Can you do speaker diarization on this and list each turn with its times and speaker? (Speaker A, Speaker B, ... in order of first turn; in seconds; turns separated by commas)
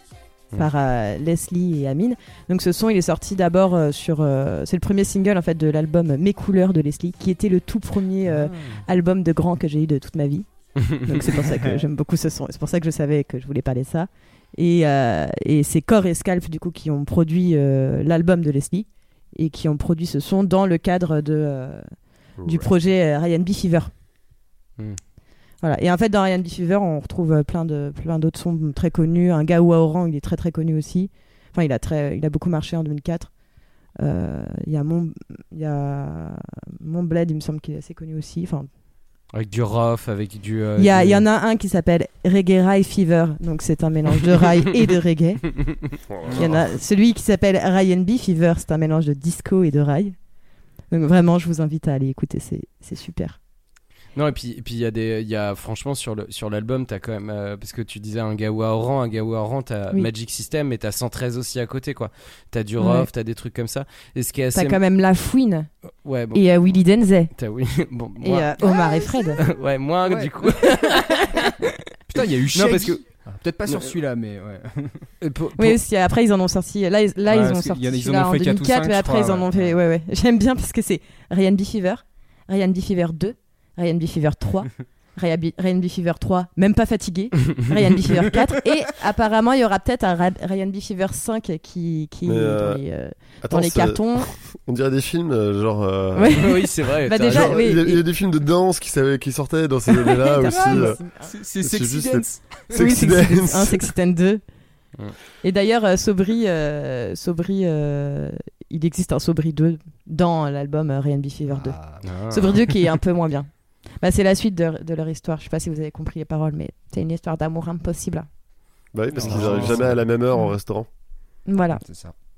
Speaker A: 0.5-23.9, Speaker B: 8.5-8.8, Speaker C: 11.4-11.8, Speaker D: 22.4-22.7, Speaker A: 25.6-33.4, Speaker A: 34.0-38.7, Speaker B: 39.3-41.2, Speaker A: 40.8-45.7, Speaker D: 46.1-46.6, Speaker C: 46.2-46.5, Speaker A: 46.3-50.2, Speaker A: 50.9-53.4, Speaker B: 54.1-64.8, Speaker A: 62.8-63.1, Speaker A: 64.5-65.7, Speaker B: 66.0-66.7, Speaker A: 66.3-67.3, Speaker B: 67.3-68.8, Speaker A: 68.2-69.4, Speaker B: 69.4-71.5, Speaker C: 70.0-70.3, Speaker C: 72.1-75.1, Speaker B: 72.5-73.0, Speaker B: 73.6-73.9, Speaker B: 75.2-75.8, Speaker A: 75.6-94.3, Speaker C: 77.3-79.8, Speaker D: 92.2-92.8, Speaker D: 93.4-101.0, Speaker A: 96.1-98.0, Speaker B: 96.3-97.6, Speaker A: 100.0-101.3, Speaker C: 100.4-102.8, Speaker D: 101.6-103.8, Speaker A: 102.7-104.5, Speaker A: 105.4-118.3, Speaker C: 111.5-112.1, Speaker B: 112.0-112.8, Speaker D: 118.9-120.9, Speaker C: 119.1-120.1, Speaker B: 119.2-120.0, Speaker A: 121.5-121.8, Speaker C: 121.8-122.1